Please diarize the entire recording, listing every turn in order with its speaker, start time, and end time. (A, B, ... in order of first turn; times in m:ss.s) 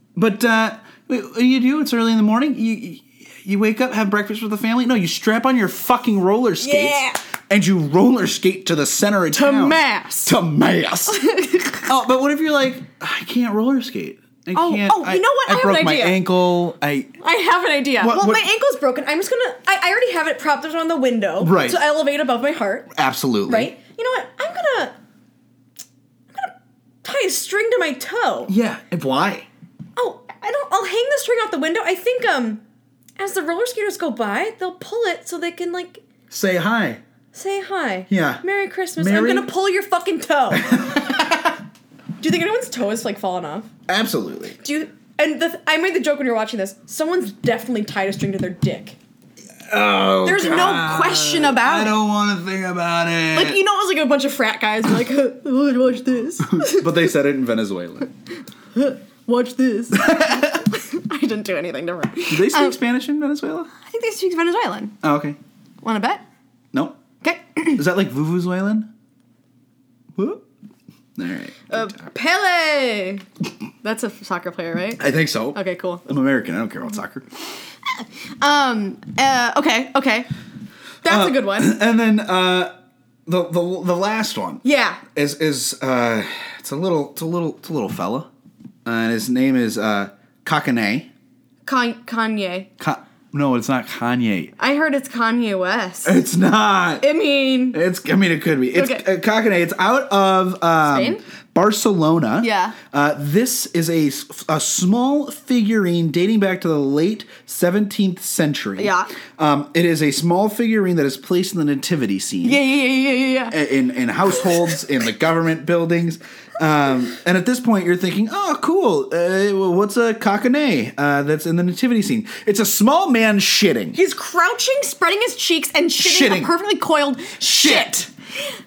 0:00.2-0:11.2 A
0:06.6-0:07.2 B
0:09.3-0:10.3 B
0:11.1-0:11.9 B
0:11.9-0:17.1 A
0:14.5-0:16.3 B
0:17.2-0:22.9 B
0:18.0-0:18.4 A
0:21.4-0:21.8 A
0:22.9-0:23.7 A
0:23.4-0:25.0 B
0:27.0-0:28.5 B
0:28.5-0:29.5 A
0:30.0-0:32.6 B
0:33.2-0:36.0 B
0:36.3-0:37.0 A
0:37.3-0:41.4 B
0:38.1-0:38.4 A
0:39.0-0:39.5 A
0:40.6-0:41.5 A
0:42.2-0:43.7 B
0:43.9-0:44.6 A
0:44.6-0:49.0 B
0:49.7-0:53.6 A
0:50.2-0:51.9 B
0:53.3-0:57.1 B
0:56.5-0:58.1 A
0:58.7-1:02.8 B
0:59.9-1:00.6 A
1:02.3-1:03.7 A
1:03.8-1:05.0 B
1:05.0-1:05.4 A
1:05.8-1:06.2 B
1:06.7-1:07.0 A
1:07.2-1:07.8 B
1:07.7-1:08.9 A
1:10.2-1:10.4 A
1:11.2-1:11.9 A
1:11.7-1:13.2 B
1:13.8-1:16.1 B
1:15.0-1:17.3 A
1:17.9-1:20.3 B
1:21.0-1:21.8 B
1:21.0-1:22.7 A
1:23.3-1:28.3 A
1:24.6-1:25.0 B
1:28.8-1:31.1 A
1:31.6-1:32.7 B
1:32.8-1:34.5 A
1:34.6-1:36.1 B
1:36.0-1:37.0 A
1:37.0-1:37.8 B
1:37.7-1:52.6 A
1:38.7-1:39.0 B
1:40.8-1:41.2 B
1:42.4-1:42.8 B
1:48.8-1:49.1 B
1:52.4-1:53.6 B
1:53.5-2:04.0 A
2:03.9-2:08.0 B
2:06.0-2:06.5 A
2:07.5-2:08.1 A